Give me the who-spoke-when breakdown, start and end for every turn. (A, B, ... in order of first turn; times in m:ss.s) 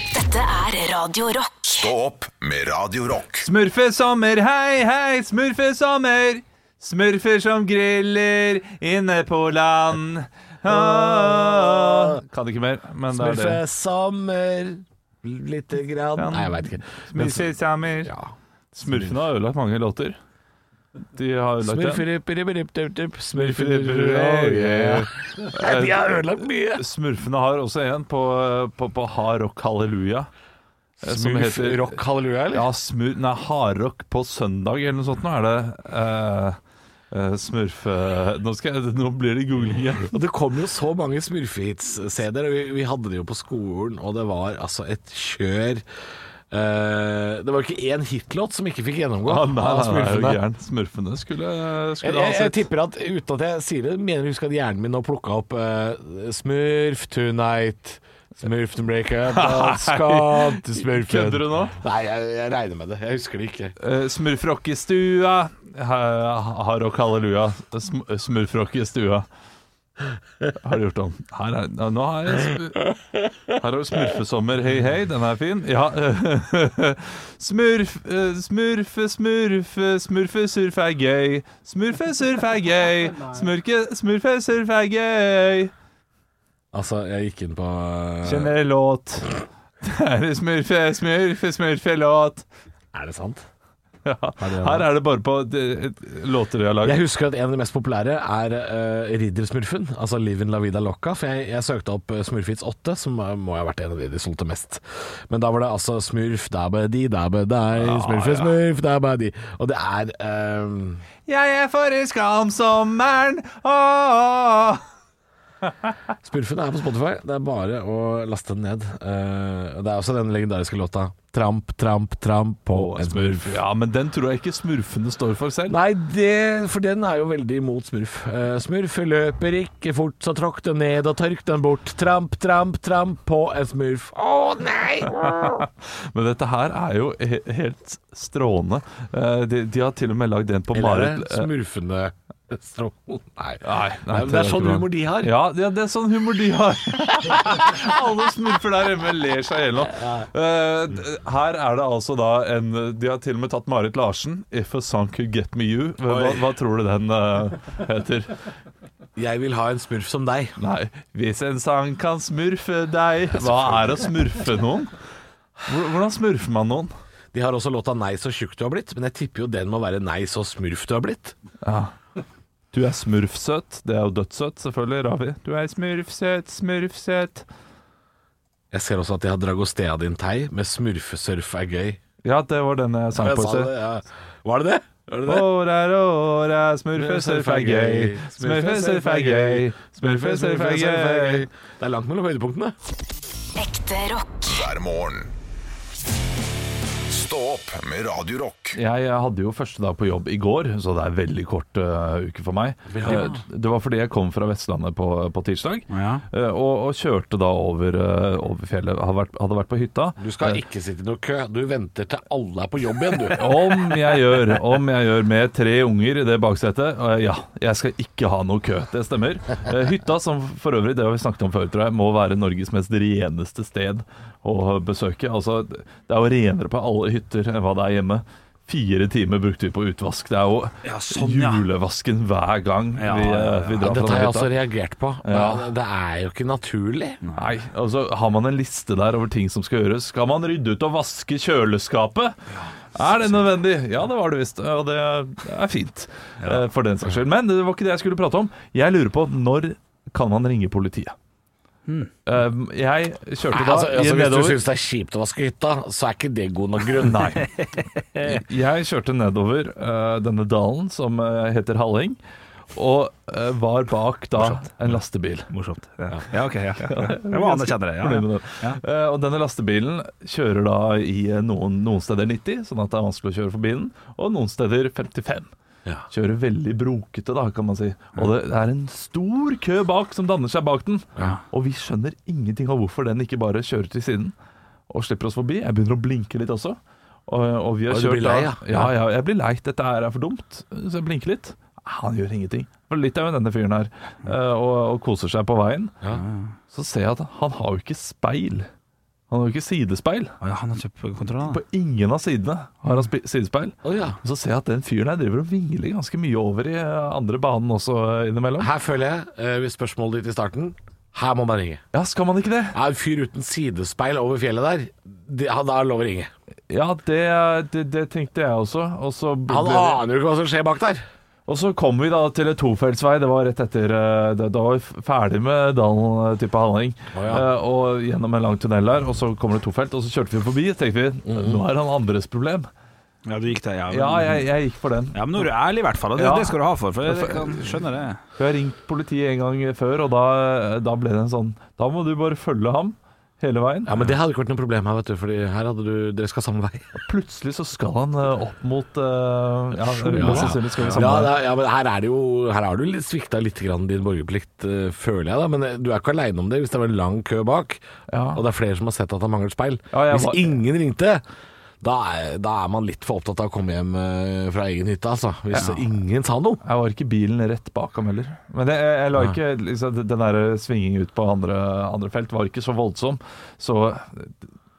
0:00.1-0:01.9 A
0:01.7-0:03.5 B
0:03.4-0:13.6 C
0:10.7-0:12.2 D
0:13.1-0:18.3 D
0:16.2-0:18.1 C
0:18.7-0:20.2 C
0:18.9-0:19.2 D
0:21.2-0:22.1 C
0:21.6-0:26.8 D
0:23.4-0:26.1 C
0:26.8-0:30.3 C
0:31.0-0:32.7 D
0:31.0-0:31.9 C
0:32.5-0:36.6 C
0:37.1-0:40.1 C
0:40.1-0:45.8 D
0:46.5-0:50.4 D
0:49.3-0:52.6 C
0:52.0-1:03.8 D
0:59.3-1:01.8 C
1:03.8-1:09.3 C
1:10.6-1:13.0 C
1:13.5-1:25.7 C
1:26.7-1:28.6 D
1:28.2-1:32.4 C
1:32.9-1:33.4 D
1:34.0-1:37.0 C
1:34.4-1:34.9 D
1:36.8-1:51.1 D
1:47.8-1:48.5 C
1:51.3-1:54.8 C
1:56.2-2:03.6 D
2:02.7-2:05.8 C
2:05.7-2:15.7 D
2:15.2-2:21.5 C
2:20.7-2:25.3 D
2:23.6-2:38.4 C
2:30.0-2:30.3 D
2:36.1-2:36.4 D
2:39.2-2:40.6 D
2:40.6-2:44.9 C
2:43.3-2:44.1 D
2:45.7-2:46.9 C
2:47.3-2:51.4 D
2:51.6-2:51.9 C
2:52.7-2:57.5 C
2:58.7-3:02.0 D
3:02.2-3:03.7 C
3:03.2-3:05.5 D
3:05.3-3:11.5 C
3:07.0-3:12.7 D
3:13.6-3:14.6 A
3:14.5-3:15.3 B
3:17.1-3:18.8 B
3:18.8-3:30.6 C
3:22.9-3:23.4 D
3:25.9-3:26.2 E
3:30.2-3:33.7 D
3:33.3-3:54.5 C
3:50.8-3:51.6 E
3:53.0-3:53.8 E
3:53.8-3:57.2 D
3:55.2-3:55.7 C
3:57.2-3:57.5 E
3:57.4-4:02.4 C
4:03.0-4:11.2 C
4:06.4-4:06.6 E
4:12.3-4:14.6 C
4:13.5-4:17.4 D
4:17.0-4:17.5 C
4:18.2-4:22.2 C
4:22.8-4:25.5 C
4:25.5-4:28.8 E
4:26.9-4:35.5 C
4:36.1-4:44.3 C
4:44.9-4:55.9 C
4:47.9-4:48.9 D
4:56.1-4:56.5 E
4:56.7-4:58.7 C
4:59.3-5:00.3 C
5:00.4-5:01.6 E
5:01.5-5:08.7 C
5:03.8-5:04.2 D
5:08.6-5:11.8 D
5:11.9-5:12.8 C
5:12.7-5:16.3 D
5:16.7-5:20.0 C
5:19.5-5:21.0 D
5:21.5-5:32.7 C
5:27.1-5:27.5 D
5:31.3-5:31.6 D
5:33.3-5:34.5 E
5:33.9-5:35.5 C
5:35.1-5:38.2 E
5:36.2-5:37.7 C
5:38.4-5:44.0 C
5:43.9-5:46.9 D
5:47.0-5:51.4 C
5:49.8-5:57.8 D
5:50.1-5:51.0 E
5:58.1-5:58.4 C
5:58.3-6:01.2 D
5:59.9-6:00.6 C
6:01.8-6:06.6 D
6:06.6-6:14.4 C